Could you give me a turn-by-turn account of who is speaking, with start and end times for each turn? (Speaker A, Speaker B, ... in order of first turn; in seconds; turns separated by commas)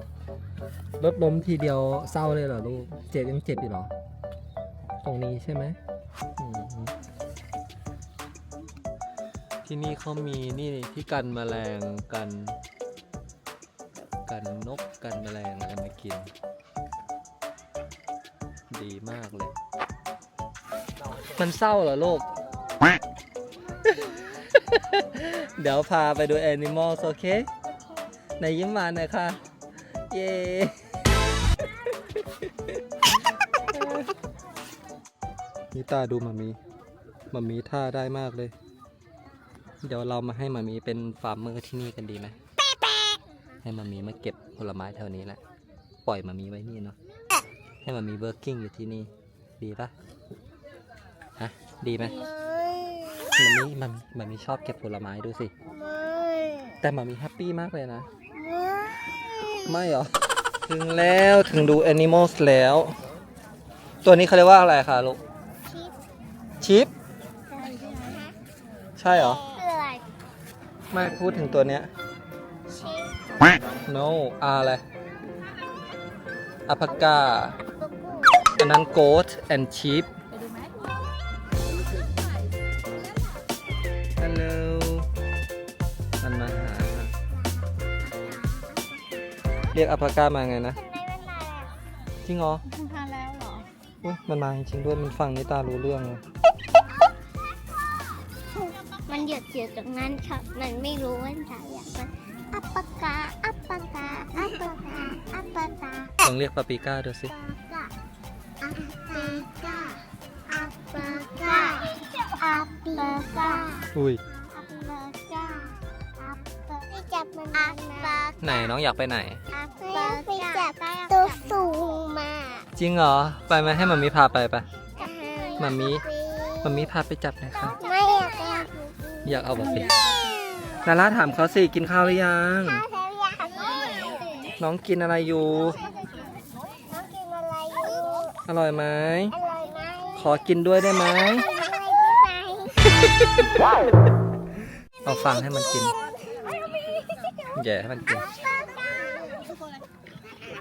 Speaker A: 1.0-3.9, Speaker A: 5.0-5.8, Speaker A: 6.4-6.9, Speaker A: 9.7-12.6, Speaker A: 14.3-16.3, Speaker A: 18.7-19.5, Speaker A: 21.4-22.3, Speaker A: 24.1-27.5, Speaker A: 28.4-29.4, Speaker A: 30.1-30.7, Speaker A: 32.4-32.8, Speaker A: 33.7-34.1, Speaker A: 35.7-36.6, Speaker A: 37.3-38.5, Speaker A: 39.8-42.4, Speaker A: 43.6-45.4, Speaker A: 46.0-47.0, Speaker A: 47.9-49.9, Speaker A: 51.4-52.3, Speaker A: 53.4-55.5, Speaker A: 56.8-58.1, Speaker A: 59.6-60.1, Speaker A: 60.7-63.0, Speaker A: 64.0-65.2, Speaker B: 65.7-66.0, Speaker A: 66.6-66.9, Speaker C: 67.5-68.3, Speaker A: 69.0-69.4, Speaker B: 69.1-70.0, Speaker A: 70.9-71.9, Speaker B: 72.7-73.2, Speaker C: 73.3-73.6, Speaker A: 73.9-74.8, Speaker A: 76.7-77.6, Speaker B: 77.8-78.5, Speaker A: 78.6-80.1, Speaker C: 80.3-80.7, Speaker A: 84.2-85.1, Speaker A: 86.2-87.1, Speaker A: 89.7-90.8, Speaker B: 90.7-91.7, Speaker A: 92.2-92.6, Speaker C: 92.7-93.7, Speaker A: 94.0-96.2, Speaker B: 98.5-106.2, Speaker A: 106.2-107.3, Speaker B: 107.3-107.9, Speaker B: 108.6-113.9, Speaker A: 114.0-114.2, Speaker B: 114.4-118.7, Speaker A: 118.4-119.4, Speaker B: 119.5-122.7, Speaker A: 122.8-124.7, Speaker B: 125.0-126.9, Speaker A: 125.6-126.0, Speaker A: 126.6-127.8, Speaker B: 127.8-129.5, Speaker A: 129.2-129.9, Speaker C: 129.8-130.2, Speaker A: 130.8-132.8, Speaker B: 132.6-134.5, Speaker A: 134.6-135.8, Speaker B: 135.8-136.3, Speaker B: 136.9-138.3, Speaker A: 138.5-139.4, Speaker B: 139.3-140.3, Speaker A: 140.2-141.5, Speaker B: 141.1-143.0, Speaker A: 142.9-143.6, Speaker A: 145.0-145.9, Speaker A: 147.6-148.3, Speaker B: 148.9-149.4